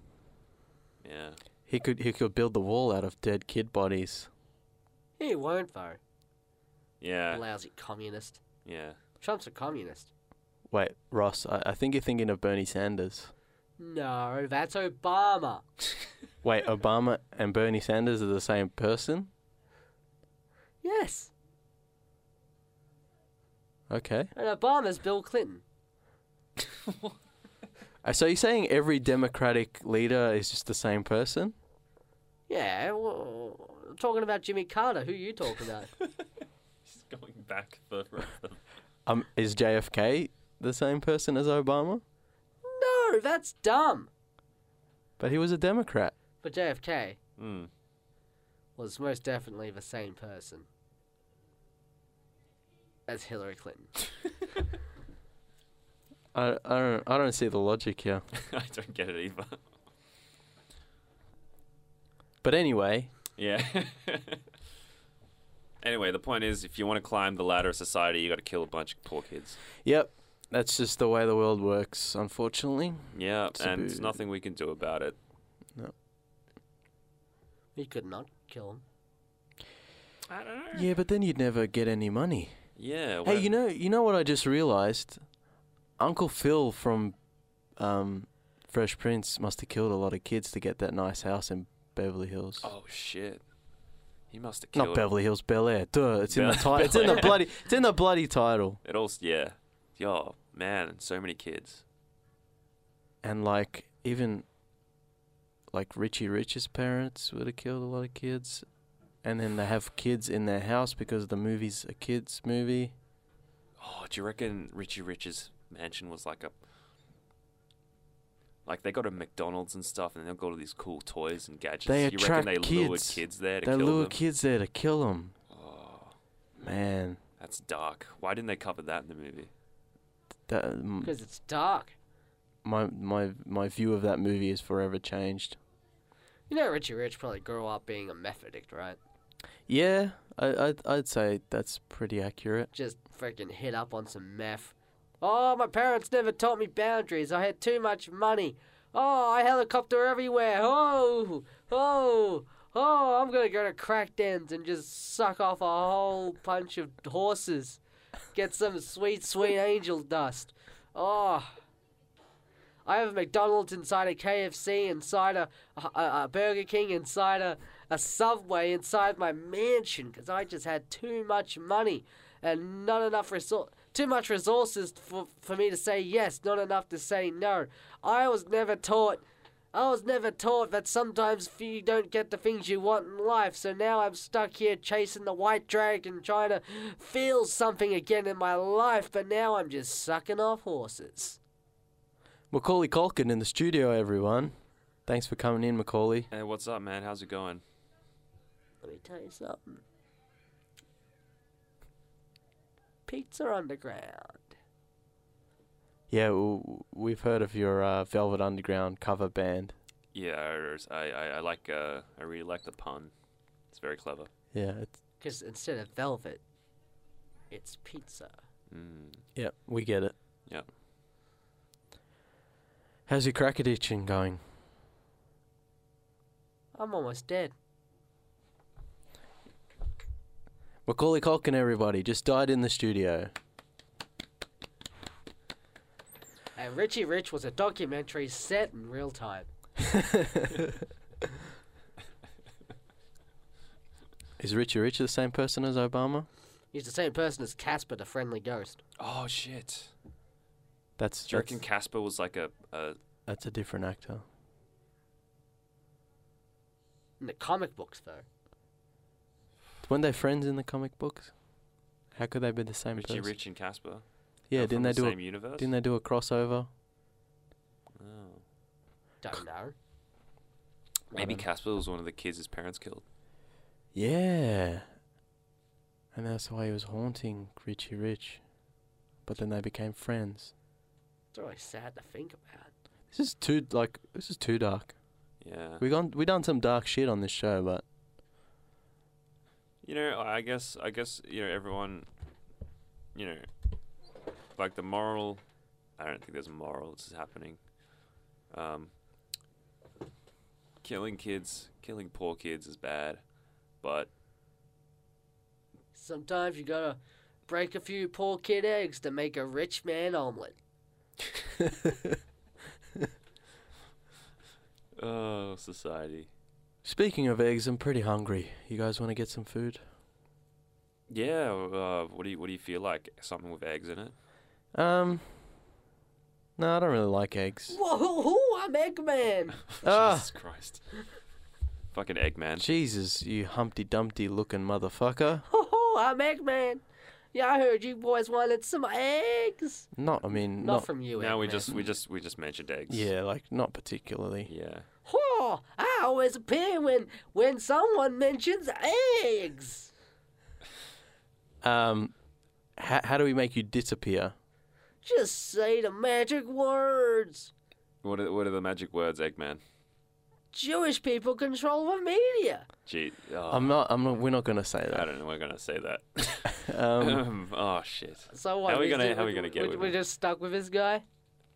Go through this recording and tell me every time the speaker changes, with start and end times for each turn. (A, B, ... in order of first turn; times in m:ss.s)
0:01.0-0:01.4 A
0:01.7-0:04.3 B
0:05.2-0:06.0 C
0:07.0-0:07.4 A
0:07.3-0:08.4 C
0:08.6-0:09.0 A
0:09.2-0:10.1 C
0:10.7-0:13.3 B
0:13.8-0:15.6 C
0:16.4-0:19.3 B
0:20.8-0:21.3 C
0:23.9-0:24.3 B
0:24.3-0:25.6 C
0:26.8-0:27.1 A
0:28.0-0:31.5 B
0:32.5-0:35.9 C
0:36.8-0:38.6 A
0:39.0-0:42.0 B
0:42.6-0:44.1 C
0:45.2-0:46.1 B
0:46.4-0:47.2 C
0:47.4-0:47.7 A
0:48.8-0:50.6 C
0:53.1-0:53.9 C
0:56.3-0:58.2 B
0:58.3-0:59.6 A
1:02.4-1:03.1 B
1:03.4-1:04.4 A
1:05.8-1:09.6 A
1:09.8-1:14.2 B
1:13.1-1:15.2 A
1:17.7-1:18.8 C
1:20.3-1:20.9 A
1:20.7-1:22.5 B
1:22.8-1:23.5 A
1:23.2-1:25.2 B
1:26.0-1:27.1 B
1:27.8-1:32.7 B
1:32.6-1:33.4 A
1:34.3-1:35.1 A
1:34.7-1:38.8 B
1:36.3-1:37.4 A
1:38.8-1:41.8 A
1:43.2-1:44.4 B
1:45.7-1:48.6 B
1:49.2-1:52.9 B
1:53.8-1:56.5 A
1:58.6-2:04.2 A
2:01.8-2:05.3 B
2:05.5-2:06.1 A
2:06.6-2:07.2 B
2:07.4-2:09.5 A
2:10.5-2:11.1 B
2:11.0-2:11.9 C
2:12.6-2:15.6 B
2:16.5-2:19.0 C
2:19.7-2:22.7 B
2:22.7-2:37.8 C
2:38.3-2:41.5 C
2:42.8-3:11.4 C
3:12.5-3:14.5 B
3:15.0-3:16.3 B
3:16.3-3:17.6 A
3:18.8-3:19.8 C
3:23.1-3:24.5 C
3:26.1-3:29.7 B
3:30.1-3:33.1 A
3:33.7-3:34.3 A
3:34.5-3:34.9 B
3:35.2-3:36.4 C
3:37.5-3:38.3 C
3:38.7-3:39.2 A
3:39.3-3:40.1 B
3:43.1-3:44.4 B
3:46.7-3:47.5 C
3:50.8-3:53.3 B
3:56.6-3:59.5 C
3:59.8-4:00.8 B
4:04.4-4:06.3 B
4:06.7-4:08.8 C
4:09.0-4:09.9 A
4:11.0-4:11.6 B
4:11.3-4:13.0 A
4:13.3-4:14.2 B
4:17.2-4:18.2 C
4:19.8-4:21.3 B
4:22.1-4:23.3 B
4:22.9-4:25.7 A
4:24.5-4:26.7 B
4:28.0-4:28.4 A
4:29.2-4:29.7 C
4:31.1-4:33.0 A
4:31.1-4:31.4 B
4:33.9-4:34.8 B
4:36.1-4:38.4 B
4:39.2-4:40.5 B
4:41.3-4:42.7 C
4:43.1-4:44.9 B
4:45.4-4:45.8 A
4:45.8-4:47.8 B
4:49.8-4:52.1 A
4:53.1-4:53.5 A
4:54.5-4:55.4 A
4:56.0-4:57.6 A
4:58.5-4:58.9 A
5:00.8-5:03.2 A
5:03.8-5:04.1 A
5:05.9-5:10.6 C
5:11.6-5:12.2 B
5:15.0-5:16.3 A
5:16.8-5:19.8 B
5:21.1-5:24.1 A
5:24.7-5:25.3 B
5:26.6-5:27.8 B
5:27.7-5:29.6 C
5:29.7-5:30.8 A
5:29.8-5:30.3 B
5:31.9-5:32.7 A
5:32.6-5:35.4 B
5:35.5-5:39.9 C
5:39.9-5:40.9 B
5:40.6-5:41.8 C
5:41.2-5:43.1 A
5:42.9-5:44.5 B
5:44.4-5:44.8 A
5:45.0-5:49.9 C
5:51.6-5:52.1 B
5:52.8-5:54.3 B
5:55.0-5:57.5 C
5:58.0-5:59.6 A
6:00.5-6:02.6 C
6:02.8-6:03.7 A
6:03.5-6:05.1 B
6:04.9-6:10.0 A
6:06.4-6:07.2 B
6:08.3-6:11.0 C